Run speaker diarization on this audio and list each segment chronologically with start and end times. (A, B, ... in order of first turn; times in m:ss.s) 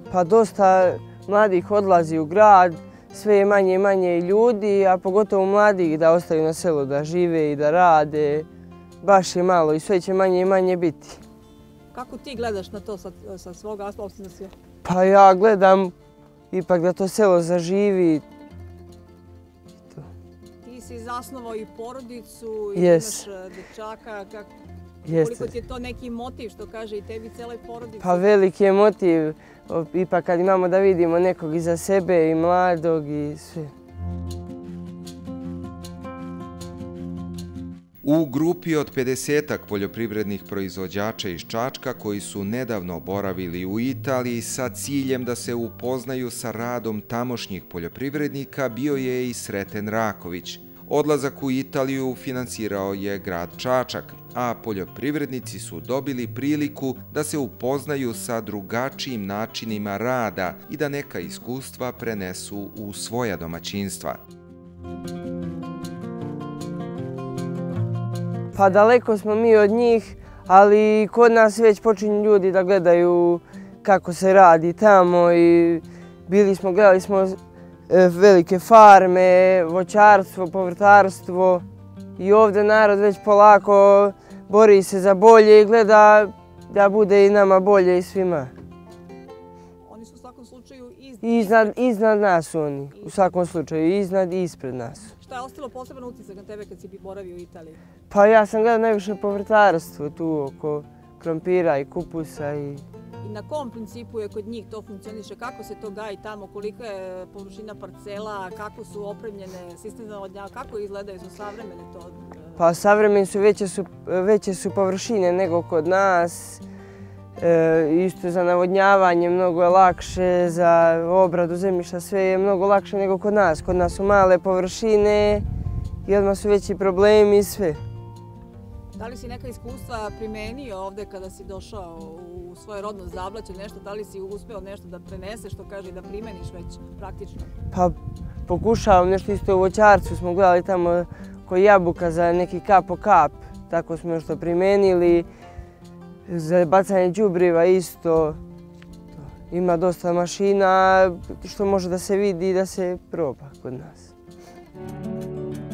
0:00.1-0:08.5 A
0:09.0-0:11.2 A
0:11.9-0:14.5 B
0:14.8-0:15.9 A
0:16.5-0:18.2 A
0:20.6-0:24.5 B
0:22.8-0:23.3 A
0:25.0-0:28.3 B
0:25.1-0:25.5 A
0:28.0-0:33.7 A
0:38.0-1:04.2 C
1:08.5-1:21.6 A
1:22.2-1:28.5 A
1:29.9-1:31.8 B
1:31.2-1:35.1 A
1:33.0-1:33.2 B
1:35.2-1:37.8 B
1:38.1-1:42.8 A
1:43.2-1:52.6 B
1:52.6-1:56.6 A
1:57.4-2:05.4 A
2:06.1-2:07.8 A
2:09.0-2:17.5 B
2:18.5-2:25.3 A
2:26.3-2:28.4 A
2:29.2-2:34.1 A